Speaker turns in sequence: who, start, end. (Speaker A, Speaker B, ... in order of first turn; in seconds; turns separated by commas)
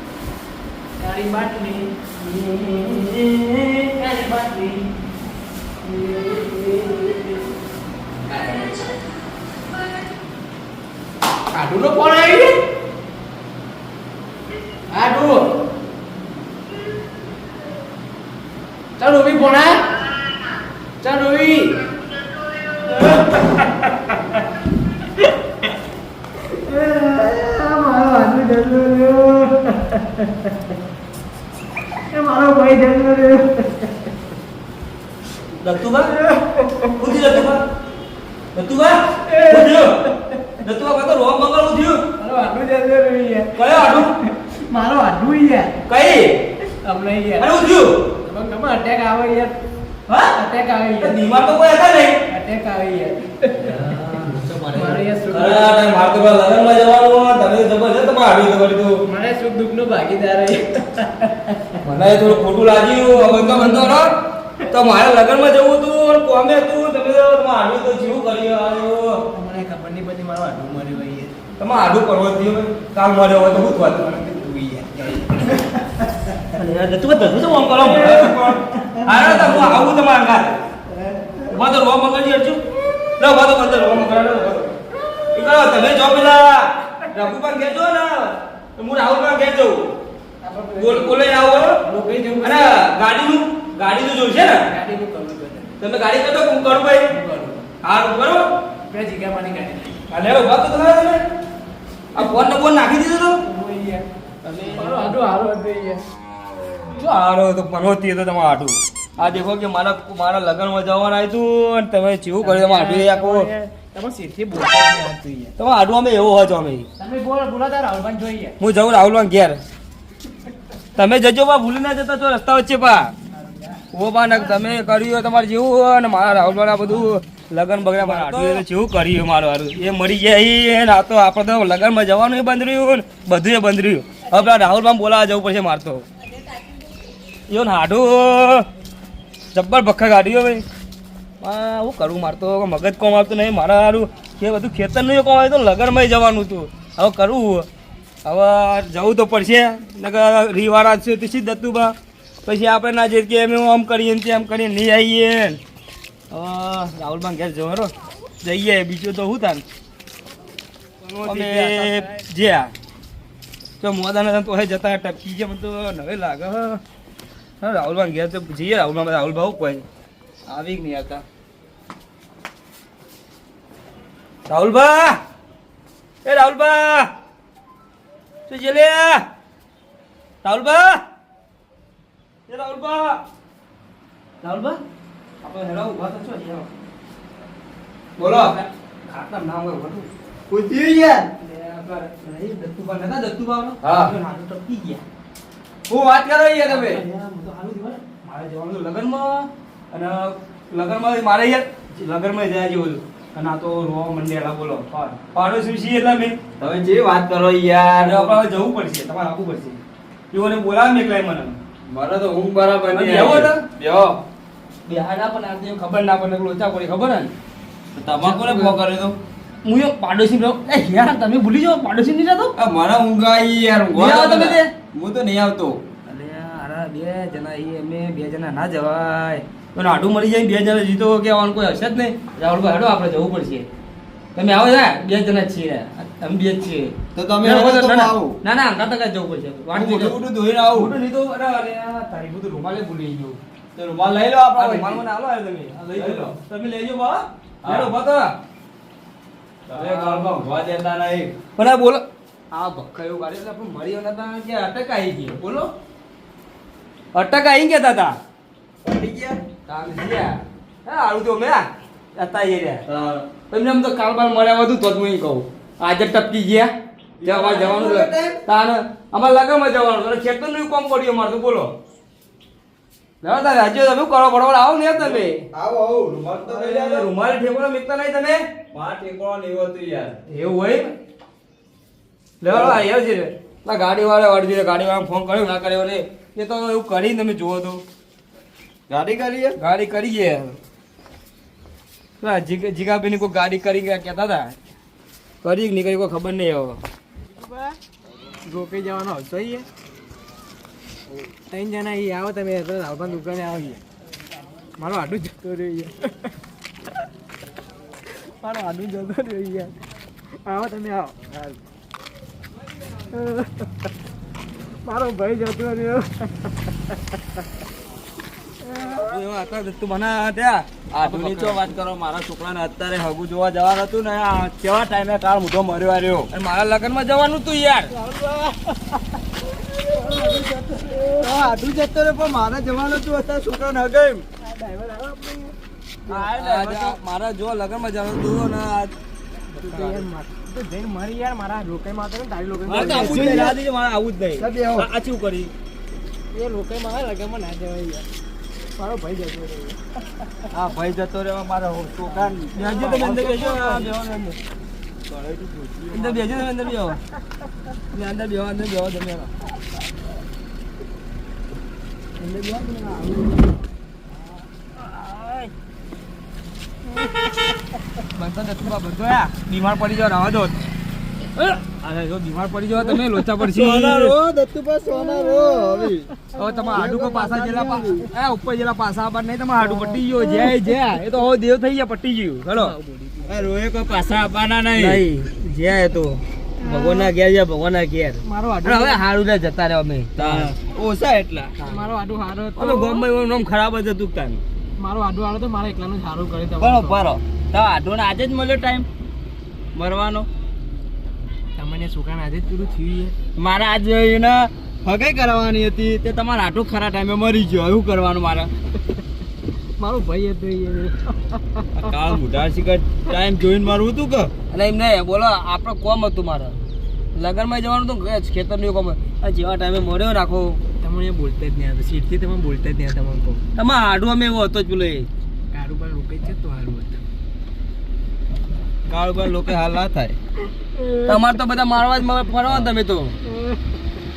Speaker A: 1.0-5.0, Speaker A: 5.8-7.4, Speaker A: 8.3-8.9, Speaker A: 11.5-12.6, Speaker A: 14.9-15.5, Speaker A: 19.0-20.1, Speaker A: 21.0-21.9, Speaker A: 23.0-23.9, Speaker A: 26.4-30.5, Speaker A: 32.1-34.1, Speaker B: 35.6-36.1, Speaker A: 36.2-36.9, Speaker B: 37.0-37.6, Speaker B: 38.5-40.0, Speaker A: 39.3-40.5, Speaker B: 40.6-42.0, Speaker A: 42.2-45.8, Speaker B: 43.6-44.1, Speaker B: 45.9-46.4, Speaker A: 46.7-47.5, Speaker B: 47.4-48.0, Speaker A: 48.2-49.6, Speaker B: 50.1-50.4, Speaker A: 50.3-51.2, Speaker B: 51.0-52.2, Speaker A: 52.3-53.8, Speaker B: 53.6-59.0, Speaker C: 54.4-55.0, Speaker A: 54.7-55.9, Speaker A: 59.0-61.8, Speaker B: 61.8-64.2, Speaker A: 63.1-64.0, Speaker B: 64.7-69.2, Speaker A: 69.3-71.4, Speaker B: 71.6-74.1, Speaker A: 74.0-76.4, Speaker B: 76.5-80.6, Speaker A: 78.1-79.7, Speaker B: 81.4-82.6, Speaker B: 83.2-84.8, Speaker B: 85.3-89.9, Speaker A: 90.4-91.3, Speaker B: 90.8-91.8, Speaker A: 91.8-92.8, Speaker B: 92.4-94.6, Speaker A: 94.7-95.8, Speaker B: 95.8-97.1, Speaker A: 97.1-97.7, Speaker B: 97.8-98.5, Speaker A: 98.9-100.0, Speaker B: 100.1-101.3, Speaker B: 102.1-103.4, Speaker A: 103.4-104.1, Speaker B: 104.4-105.2, Speaker A: 104.6-106.0, Speaker B: 107.0-113.5, Speaker A: 112.4-115.5, Speaker B: 115.6-116.9, Speaker A: 117.0-118.6, Speaker B: 118.6-119.6, Speaker B: 121.0-123.1, Speaker A: 123.3-124.6, Speaker B: 123.9-136.1, Speaker C: 128.0-128.7, Speaker B: 137.5-138.7, Speaker B: 139.5-140.6, Speaker B: 141.4-147.7, Speaker B: 148.2-151.9, Speaker B: 152.5-155.6, Speaker B: 156.3-157.9, Speaker B: 158.4-159.6, Speaker B: 161.1-162.7, Speaker C: 161.2-162.1, Speaker B: 163.8-166.8, Speaker B: 167.6-169.8, Speaker B: 170.5-171.2, Speaker B: 174.5-175.2, Speaker B: 176.2-177.1, Speaker B: 178.5-179.2, Speaker B: 180.4-181.0, Speaker B: 182.5-183.2, Speaker B: 184.4-184.8, Speaker B: 185.4-186.7, Speaker B: 188.2-190.1, Speaker C: 188.2-188.5, Speaker C: 190.5-191.3, Speaker B: 191.4-195.0, Speaker C: 193.8-194.1, Speaker B: 195.9-206.4, Speaker C: 196.6-197.0, Speaker C: 206.6-208.4, Speaker B: 208.0-209.8, Speaker B: 210.3-211.6, Speaker C: 211.9-214.2, Speaker B: 212.9-213.7, Speaker B: 214.9-217.3, Speaker C: 217.9-219.2, Speaker B: 218.2-218.8, Speaker B: 219.6-222.5, Speaker C: 222.6-225.8, Speaker B: 223.9-224.7, Speaker B: 226.1-233.7, Speaker B: 234.4-240.2, Speaker C: 237.1-238.4, Speaker C: 239.7-240.9, Speaker B: 240.7-243.4, Speaker C: 243.8-245.0, Speaker B: 244.6-248.3, Speaker C: 245.9-247.0, Speaker C: 247.6-247.9, Speaker C: 249.7-251.4, Speaker B: 249.7-250.4, Speaker B: 251.6-255.7, Speaker B: 257.1-258.2, Speaker C: 258.8-259.4, Speaker B: 259.7-262.8, Speaker C: 262.9-263.3, Speaker B: 263.5-266.7, Speaker C: 267.2-268.4, Speaker B: 267.2-271.7, Speaker B: 273.2-275.4, Speaker C: 275.0-277.1, Speaker B: 276.4-278.4, Speaker C: 278.7-280.2, Speaker B: 280.3-280.9, Speaker B: 282.4-287.8, Speaker C: 282.5-282.8, Speaker C: 288.9-289.6, Speaker B: 289.6-290.6, Speaker B: 292.2-294.5, Speaker B: 295.4-296.8, Speaker A: 297.4-297.8, Speaker A: 298.4-299.7, Speaker A: 301.3-303.8, Speaker A: 304.8-306.3, Speaker A: 308.1-309.7, Speaker A: 310.4-311.6, Speaker A: 313.1-313.7, Speaker A: 314.8-317.0, Speaker A: 318.6-319.1, Speaker B: 318.9-321.7, Speaker C: 320.9-326.3, Speaker B: 326.3-327.9, Speaker A: 327.9-331.6, Speaker C: 331.2-334.2, Speaker A: 334.4-335.6, Speaker C: 336.1-337.0, Speaker B: 336.1-338.9, Speaker B: 339.5-340.0, Speaker A: 339.5-343.5, Speaker B: 342.7-345.5, Speaker C: 342.7-343.6, Speaker C: 344.3-344.9, Speaker A: 346.3-348.1, Speaker A: 348.8-349.9, Speaker C: 350.5-353.7, Speaker A: 352.2-353.9, Speaker B: 352.5-354.4, Speaker C: 355.1-356.5, Speaker B: 355.9-357.0, Speaker B: 357.9-359.3, Speaker B: 362.2-363.4, Speaker B: 364.8-365.5, Speaker B: 368.1-370.6, Speaker B: 371.4-374.2, Speaker C: 373.4-376.1, Speaker A: 374.9-376.9, Speaker B: 376.4-382.7, Speaker C: 376.7-378.1, Speaker A: 380.2-380.6, Speaker A: 382.5-383.5, Speaker C: 383.3-385.0, Speaker B: 384.7-390.6, Speaker A: 386.6-387.1, Speaker A: 388.2-389.0, Speaker C: 390.2-391.5, Speaker B: 391.6-391.9, Speaker A: 391.6-393.1, Speaker B: 392.6-394.4, Speaker A: 394.8-397.1, Speaker C: 396.6-398.9, Speaker C: 399.8-400.3, Speaker A: 401.6-403.2, Speaker C: 403.4-408.5, Speaker A: 409.8-411.7, Speaker C: 411.8-414.3, Speaker B: 414.5-416.6, Speaker B: 417.1-420.6, Speaker A: 420.8-423.4, Speaker B: 423.6-425.1, Speaker A: 425.5-427.0, Speaker C: 428.9-430.2, Speaker A: 430.8-431.1, Speaker B: 431.1-433.2